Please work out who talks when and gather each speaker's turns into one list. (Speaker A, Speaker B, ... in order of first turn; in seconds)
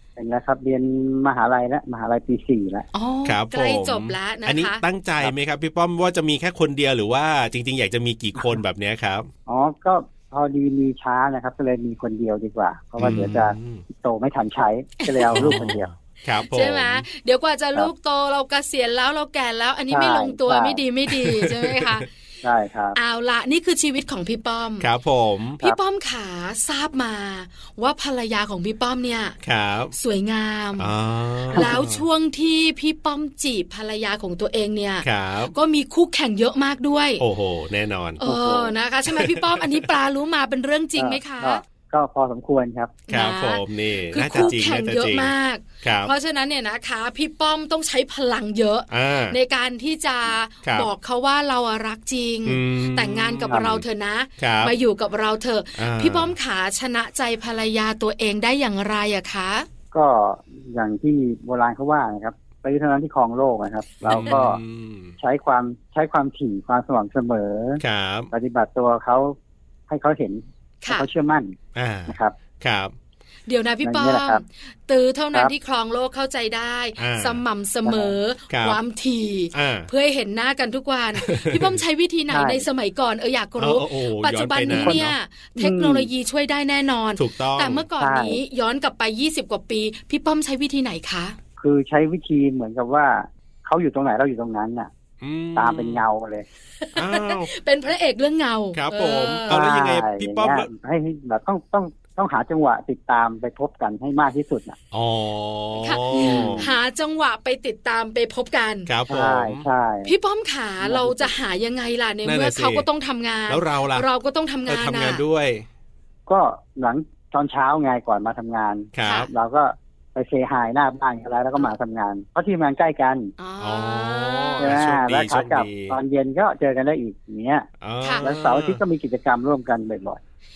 Speaker A: 0.2-2.9, 9.5-15.9, 19.9-20.8, 22.4-23.0, 38.2-38.7, 41.0-43.0, 59.9-64.6, 65.2-69.4, 69.9-71.6, 72.1-72.3, 73.8-74.4, 77.9-78.2, 82.3-82.7, 84.7-85.0, 85.6-86.1, 88.0-88.4, 91.6-94.9, 95.5-96.5, 99.5-104.8, 106.1-106.7, 109.1-110.1, 110.8-111.3, 116.3-123.3, 124.6-127.7, 128.2-130.2
Speaker B: 2.9-4.8, 15.0-15.7, 16.4-22.1, 22.9-24.9, 25.6-29.4, 29.9-30.9, 31.5-37.2, 38.2-41.6, 43.1-59.7, 70.8-71.1, 73.5-91.4, 96.8-99.6, 105.8-108.9, 110.0-115.2, 119.0-119.3, 123.4-124.7, 128.0-128.3
Speaker C: 3.2-9.3, 13.0-13.8, 15.3-17.1, 21.1-22.0, 24.8-25.6, 29.4-29.9, 30.8-32.0, 35.0-35.5, 37.2-38.2, 39.1-39.9, 43.1-46.1, 48.9-49.4, 52.5-53.8, 54.4-54.8, 55.8-56.4, 64.0-65.2, 67.8-68.3, 71.8-72.9, 77.0-77.4, 78.5-78.8, 79.5-79.9, 81.2-81.8, 83.6-85.2, 87.2-87.8, 95.2-96.0, 97.0-97.5, 98.7-100.7, 104.9-106.7, 108.9-109.7, 112.2-112.9, 113.5-114.1, 114.7-115.7, 119.0-119.3, 123.6-126.0, 127.8-128.8